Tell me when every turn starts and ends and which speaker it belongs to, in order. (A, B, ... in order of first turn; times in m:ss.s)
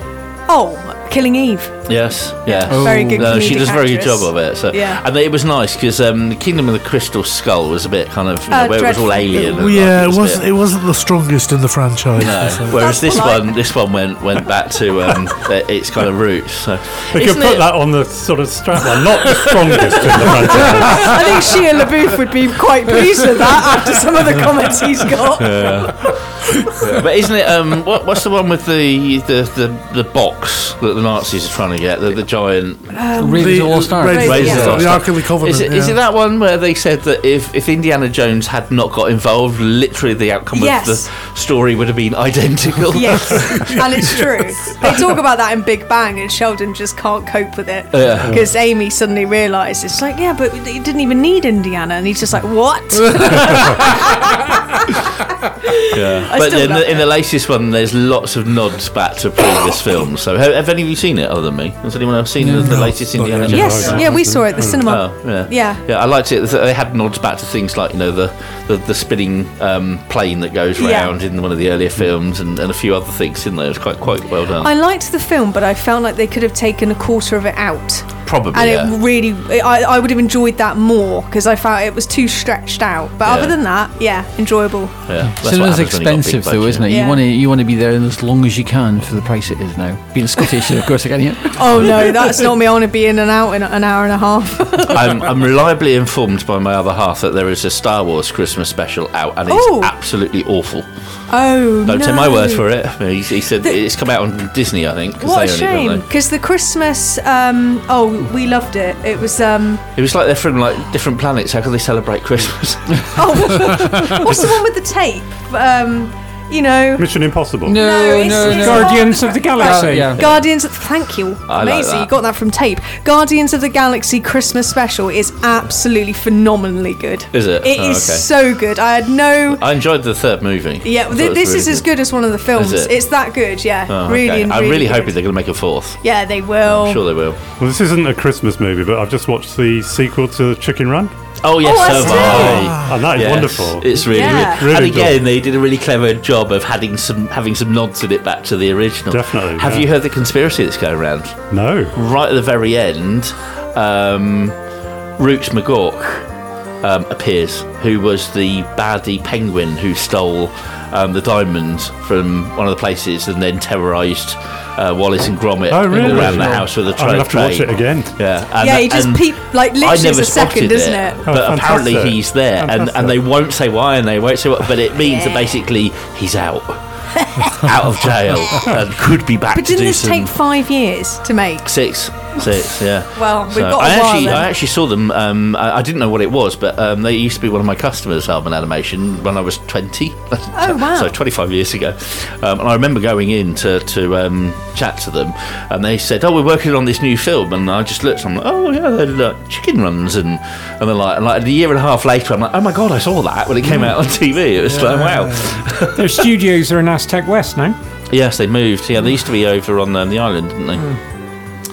0:00.5-0:01.8 A
0:01.9-0:10.4 B
0:02.4-0:05.0 A
0:02.7-0:03.4 C
0:08.5-0:09.6 A
0:09.4-0:12.8 D
0:12.2-0:17.7 B
0:12.7-0:13.5 A
0:17.1-0:21.4 E
0:20.0-0:20.5 B
0:20.7-0:26.1 A
0:25.4-0:26.2 B
0:26.8-0:33.0 B
0:32.9-0:34.8 A
0:33.2-0:34.8 C
0:33.3-0:36.0 D
0:34.1-0:44.2 B
0:40.5-0:41.1 A
0:42.9-0:57.1 A
0:44.0-0:44.4 D
0:47.9-0:48.4 B
0:55.9-1:04.1 B
1:02.4-1:03.4 C
1:02.6-1:03.2 D
1:03.0-1:05.0 E
1:03.5-1:05.8 A
1:04.8-1:14.7 B
1:10.8-1:11.1 A
1:14.6-1:24.9 A
1:18.2-1:18.9 B
1:23.2-1:23.5 B
1:25.1-1:26.9 B
1:25.2-1:32.1 C
1:26.9-1:27.2 A
1:31.5-1:35.2 A
1:34.9-1:40.9 B
1:39.5-1:39.9 A
1:41.3-1:42.6 A
1:41.8-1:46.0 B
1:45.2-1:49.8 A
1:50.0-1:53.5 B
1:53.1-1:57.1 A
1:57.0-1:57.8 E
1:57.6-2:00.2 C
1:57.6-2:09.6 A
1:58.5-2:00.1 F
2:00.2-2:00.6 B
2:01.5-2:02.1 B
2:07.3-2:08.3 B
2:09.5-2:11.9 B
2:10.8-2:15.1 A
2:12.5-2:13.0 B
2:13.9-2:16.0 B
2:16.0-2:17.0 A
2:16.6-2:17.4 B
2:17.6-2:21.1 E
2:21.4-2:31.4 B
2:21.6-2:22.6 A
2:22.1-2:25.2 E
2:22.5-2:23.0 D
2:24.1-2:24.7 A
2:29.1-2:29.9 E
2:31.5-2:31.9 E
2:31.9-2:34.5 B
2:35.2-2:36.3 B
2:36.8-2:56.8 B
2:45.7-2:48.1 E
2:48.6-2:51.2 A
2:51.2-2:53.2 E
2:55.0-2:55.5 A
2:57.2-2:57.7 A
2:57.4-3:00.3 B
2:59.5-3:01.7 A
3:01.6-3:26.0 B
3:03.1-3:04.5 A
3:10.5-3:11.1 A
3:24.6-3:25.6 D
3:25.9-3:27.8 F
3:28.1-3:31.0 B